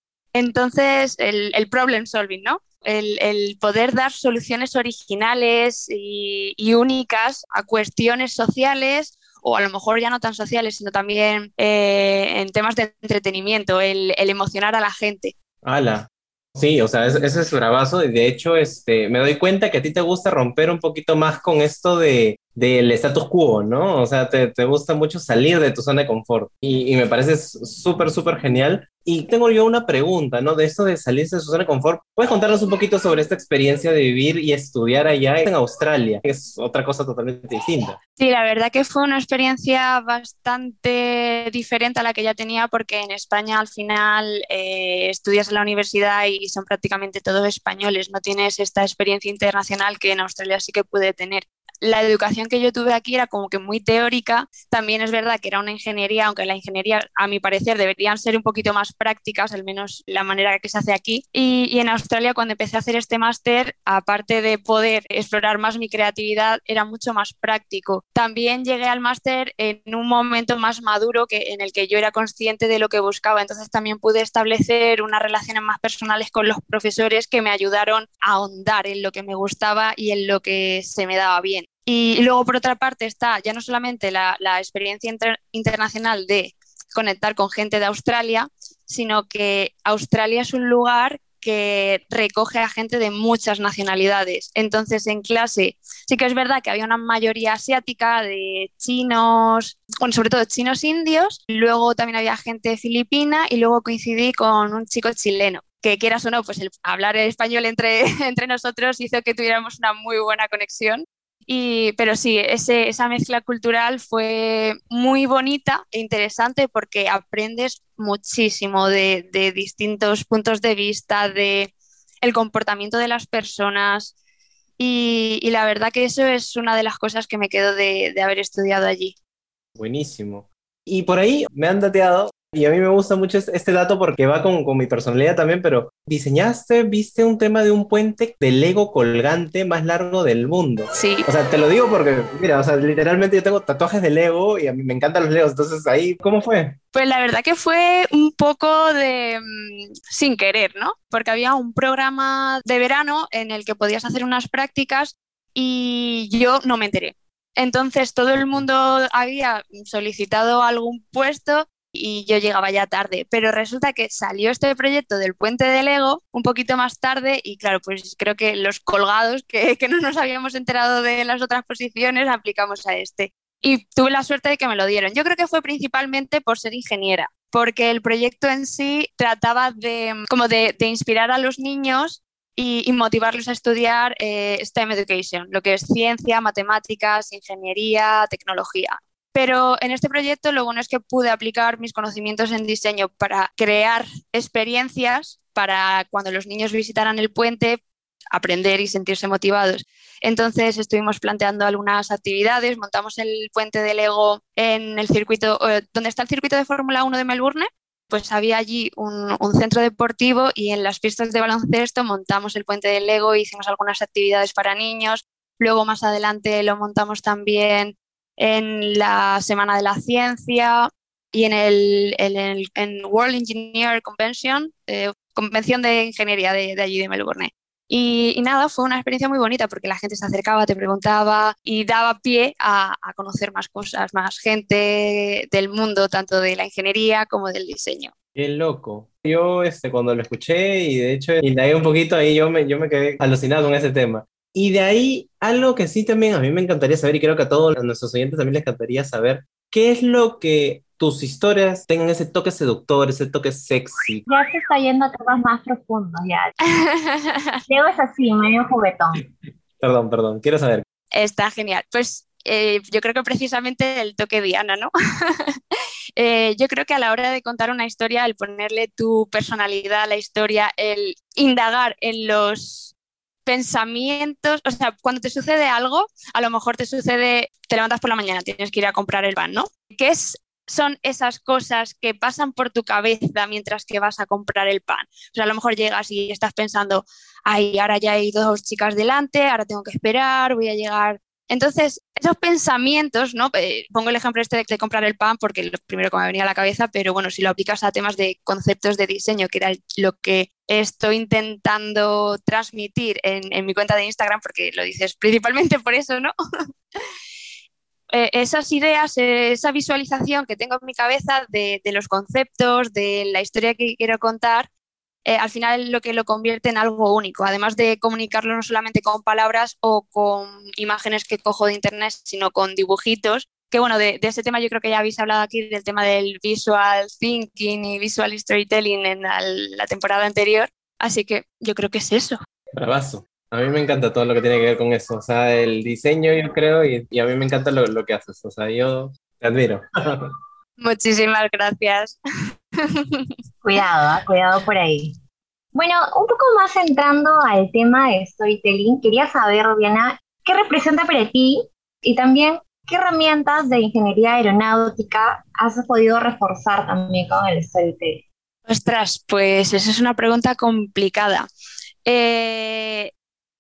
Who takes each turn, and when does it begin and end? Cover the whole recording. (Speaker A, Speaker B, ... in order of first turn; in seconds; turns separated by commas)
Speaker A: 0.3-15.3, Speaker B: 15.6-38.0, Speaker A: 38.2-124.1, Speaker A: 124.8-129.1, Speaker B: 129.8-146.8, Speaker A: 141.0-141.3, Speaker A: 146.9-197.8, Speaker A: 198.3-238.1, Speaker B: 238.3-254.3, Speaker C: 254.3-256.5, Speaker A: 256.7-257.6, Speaker C: 257.7-259.2, Speaker B: 259.8-260.8, Speaker A: 261.1-264.9, Speaker A: 266.2-272.9, Speaker A: 273.5-306.3, Speaker A: 308.1-314.7, Speaker A: 315.2-332.4, Speaker B: 332.8-340.3, Speaker A: 340.8-342.1, Speaker A: 342.9-343.3, Speaker C: 343.6-345.1, Speaker C: 345.7-358.2, Speaker A: 358.7-361.5, Speaker A: 362.1-363.1